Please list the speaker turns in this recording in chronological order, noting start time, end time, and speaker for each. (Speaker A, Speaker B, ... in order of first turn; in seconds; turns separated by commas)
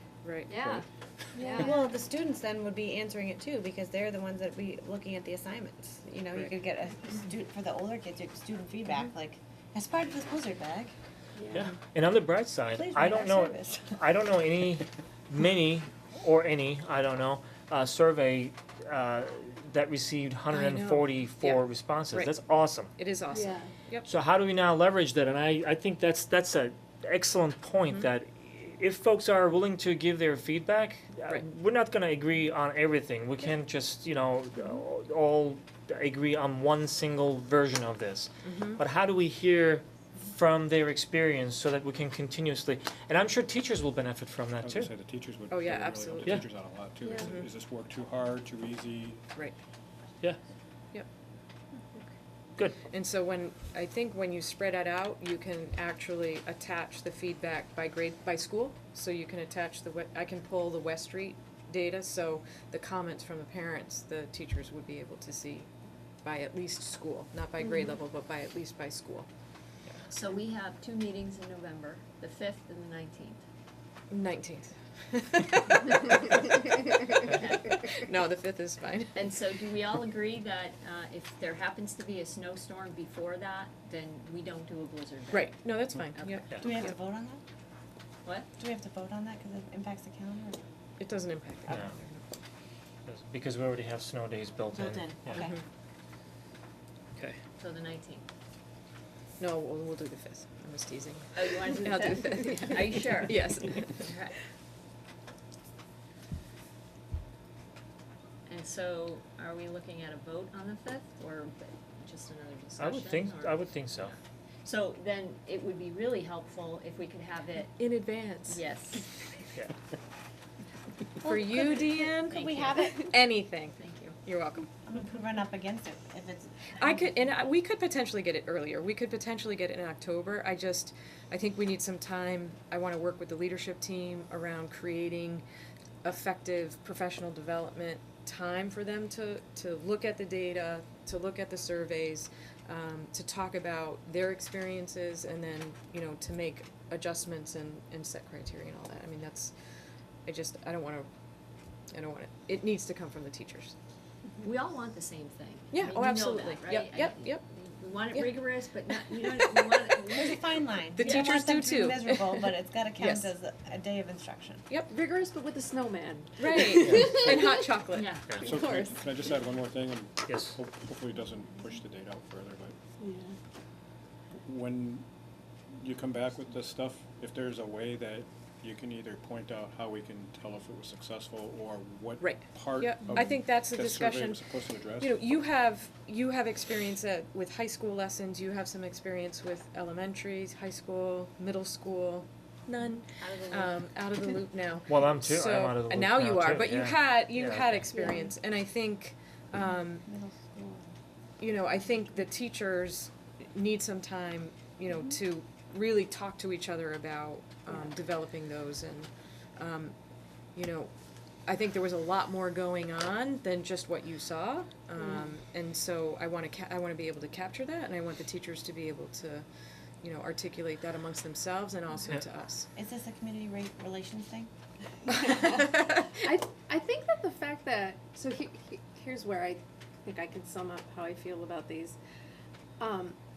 Speaker A: 0.2-0.6, Speaker B: 0.5-0.8, Speaker C: 1.4-1.7, Speaker D: 1.4-10.9, Speaker C: 11.4-11.6, Speaker E: 11.5-22.9, Speaker D: 12.7-14.0, Speaker A: 20.5-22.4, Speaker A: 23.0-24.1, Speaker C: 23.3-23.7, Speaker E: 24.1-44.9, Speaker A: 27.8-28.1, Speaker A: 38.4-38.8, Speaker F: 44.6-49.2, Speaker A: 45.5-46.4, Speaker C: 47.0-47.3, Speaker A: 52.9-65.7, Speaker A: 66.2-69.3, Speaker B: 70.1-73.4, Speaker A: 74.1-79.3, Speaker B: 77.3-78.1, Speaker B: 79.2-86.5, Speaker A: 85.3-86.9, Speaker D: 86.6-87.4, Speaker B: 88.2-88.5, Speaker D: 88.6-90.7, Speaker A: 91.0-92.2, Speaker E: 91.7-92.0, Speaker E: 93.1-95.5, Speaker D: 94.7-95.5, Speaker B: 97.6-98.2, Speaker A: 99.4-104.1, Speaker B: 101.3-104.4, Speaker B: 108.5-114.1, Speaker E: 112.8-114.1, Speaker B: 114.7-117.8, Speaker A: 117.8-118.7, Speaker B: 118.5-119.1, Speaker D: 121.2-123.2, Speaker A: 121.2-124.7, Speaker B: 122.3-122.9, Speaker B: 123.8-124.2, Speaker D: 124.8-127.0, Speaker A: 126.8-135.4, Speaker A: 136.0-149.5, Speaker A: 150.2-151.1, Speaker A: 151.9-153.7, Speaker B: 154.4-160.4, Speaker A: 155.7-157.4, Speaker A: 158.1-160.2, Speaker D: 160.1-164.6, Speaker A: 161.0-163.3, Speaker A: 164.7-165.0, Speaker C: 164.9-167.7, Speaker A: 166.4-168.1, Speaker E: 166.8-167.2, Speaker B: 167.9-168.4, Speaker C: 168.4-169.0, Speaker F: 168.4-172.8, Speaker E: 170.3-170.6, Speaker C: 173.0-173.3, Speaker F: 174.4-175.1, Speaker F: 175.8-185.2, Speaker A: 182.2-184.4, Speaker A: 185.0-200.1, Speaker B: 193.2-193.9, Speaker E: 194.9-198.0, Speaker C: 197.9-198.3, Speaker D: 200.1-200.9, Speaker A: 201.4-209.9, Speaker A: 210.6-210.9, Speaker A: 211.5-219.5, Speaker C: 215.0-215.2, Speaker A: 220.0-222.7, Speaker D: 222.8-224.5, Speaker A: 225.1-226.1, Speaker C: 225.2-232.0, Speaker C: 232.8-233.2